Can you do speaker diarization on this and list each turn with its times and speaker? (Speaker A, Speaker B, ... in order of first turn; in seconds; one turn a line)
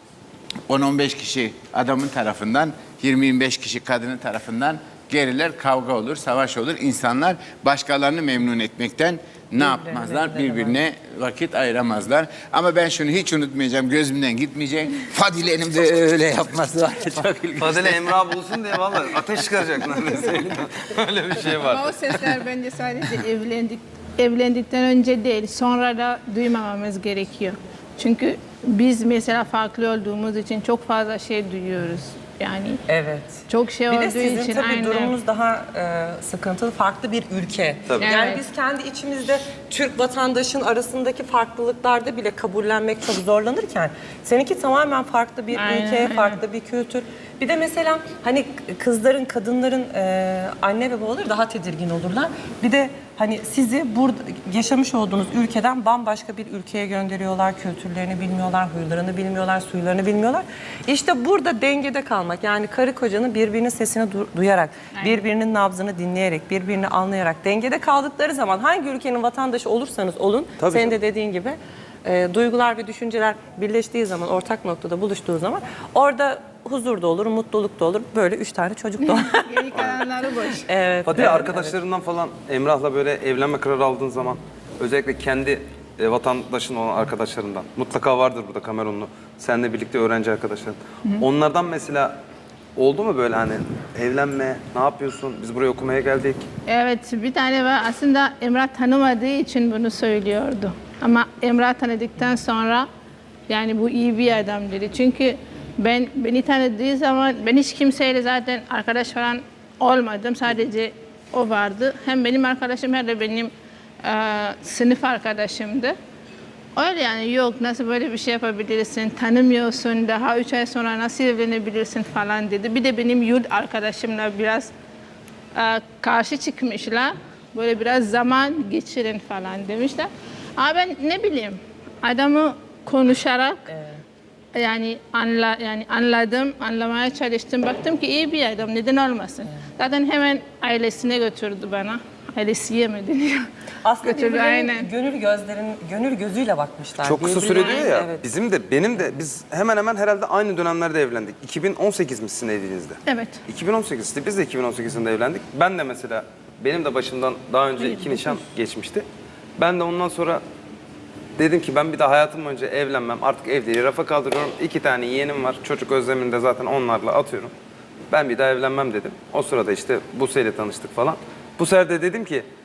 Speaker A: 0.7-18.1
Speaker B: 9.6-10.8
Speaker C: 17.6-22.0
Speaker D: 21.5-32.8
Speaker B: 32.9-79.9
Speaker D: 33.5-35.2
Speaker D: 38.0-38.4
Speaker D: 45.5-46.4
Speaker D: 65.0-65.2
Speaker C: 70.6-71.0
Speaker D: 79.1-80.7
Speaker B: 80.5-81.7
Speaker C: 81.1-92.2
Speaker C: 92.8-96.5
Speaker D: 96.7-102.9
Speaker D: 103.5-113.5
Speaker D: 114.0-116.0
Speaker D: 116.8-124.7
Speaker D: 125.5-133.7
Speaker B: 133.7-134.0
Speaker D: 134.6-143.5
Speaker B: 143.8-148.2
Speaker D: 144.0-144.9
Speaker C: 147.0-159.1
Speaker D: 153.1-153.4
Speaker D: 157.9-158.2
Speaker C: 159.6-160.4
Speaker C: 161.4-167.5
Speaker C: 168.1-172.5